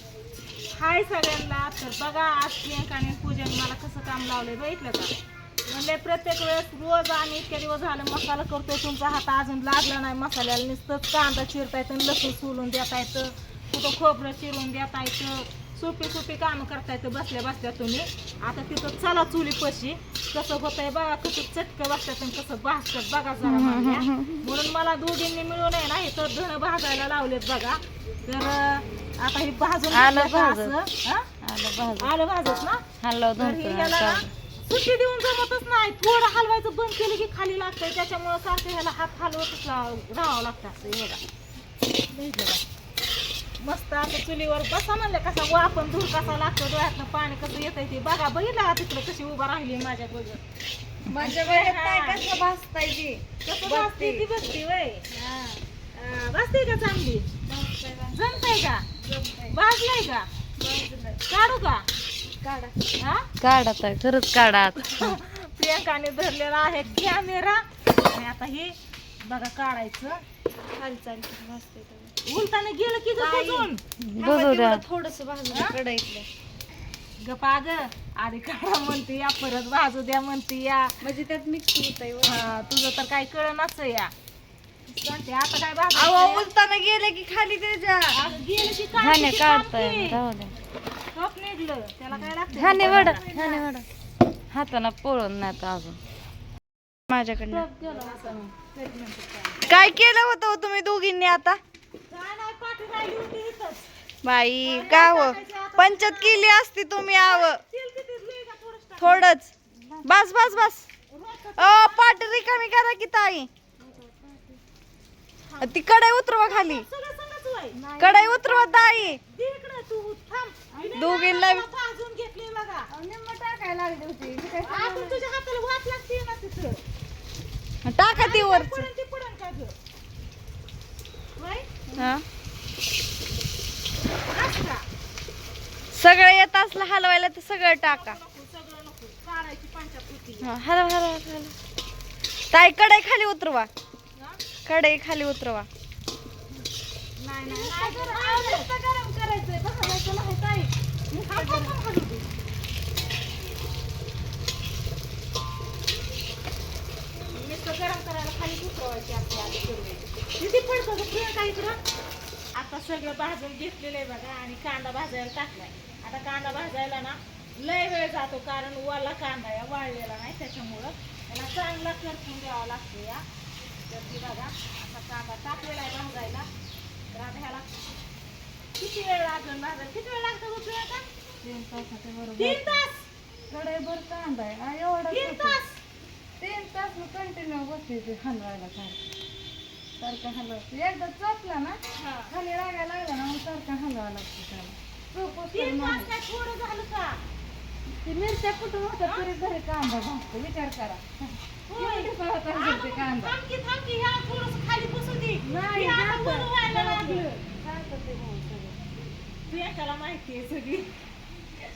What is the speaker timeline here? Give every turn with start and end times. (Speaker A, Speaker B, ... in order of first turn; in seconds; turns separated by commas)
Speaker A: 0.7-5.1, Speaker A: 5.7-31.3, Speaker B: 23.4-24.4, Speaker C: 29.9-30.7, Speaker C: 31.4-32.1, Speaker A: 32.0-32.8, Speaker C: 33.0-34.3, Speaker A: 33.4-41.2, Speaker A: 42.1-42.6, Speaker A: 43.6-50.4, Speaker B: 51.1-54.2, Speaker A: 51.2-52.3, Speaker A: 53.5-55.0, Speaker C: 55.1-55.6, Speaker A: 55.9-57.3, Speaker C: 57.5-58.2, Speaker A: 58.1-58.8, Speaker C: 59.0-59.6, Speaker A: 59.5-60.3, Speaker C: 60.6-61.2, Speaker A: 61.3-61.9, Speaker C: 62.4-62.7, Speaker A: 63.0-63.3, Speaker C: 63.4-65.2, Speaker A: 64.8-68.7, Speaker A: 69.2-70.2, Speaker B: 70.8-72.1, Speaker A: 72.2-73.8, Speaker B: 73.2-76.3, Speaker C: 74.0-74.8, Speaker A: 75.5-75.8, Speaker A: 77.2-80.9, Speaker B: 81.0-82.4, Speaker A: 82.2-84.1, Speaker A: 84.9-86.5, Speaker B: 85.9-88.2, Speaker A: 88.1-90.2, Speaker C: 89.0-90.5, Speaker A: 91.1-93.7, Speaker C: 92.5-93.8, Speaker C: 94.5-96.0, Speaker B: 97.1-97.7, Speaker C: 97.5-98.4, Speaker A: 97.8-99.8, Speaker B: 99.7-101.6, Speaker A: 102.1-103.9, Speaker B: 104.2-107.6, Speaker A: 104.6-106.5, Speaker C: 104.8-105.3, Speaker A: 107.1-109.2, Speaker B: 109.0-109.5, Speaker C: 109.8-110.7, Speaker B: 110.0-110.9, Speaker A: 111.1-112.6, Speaker B: 111.6-113.5, Speaker C: 113.8-114.6, Speaker A: 115.4-115.8, Speaker B: 115.6-116.9, Speaker A: 116.4-117.8, Speaker C: 117.7-119.2, Speaker B: 118.0-119.2, Speaker A: 119.2-122.9, Speaker C: 120.7-121.1, Speaker B: 120.9-121.7, Speaker C: 122.9-125.2, Speaker A: 124.6-126.8, Speaker B: 127.8-128.9, Speaker A: 128.1-129.8, Speaker A: 131.4-131.7, Speaker C: 131.9-132.2, Speaker B: 132.0-132.2, Speaker A: 134.3-134.8, Speaker B: 135.9-138.2, Speaker A: 137.8-140.6, Speaker B: 140.4-141.5, Speaker B: 142.5-143.7, Speaker B: 144.7-145.7, Speaker A: 147.2-148.7, Speaker C: 147.5-151.8, Speaker A: 151.1-152.3, Speaker A: 157.3-161.8, Speaker A: 162.5-173.2, Speaker A: 173.9-176.5, Speaker A: 177.1-177.8, Speaker A: 178.8-181.1, Speaker C: 181.4-182.8, Speaker A: 182.4-183.1, Speaker C: 183.5-185.6, Speaker A: 185.1-185.8, Speaker C: 186.4-189.0, Speaker C: 190.0-191.8, Speaker A: 192.0-192.3, Speaker C: 192.3-196.1, Speaker A: 195.5-197.2, Speaker C: 197.9-203.3, Speaker A: 201.7-207.3, Speaker C: 205.4-208.8, Speaker A: 209.5-210.9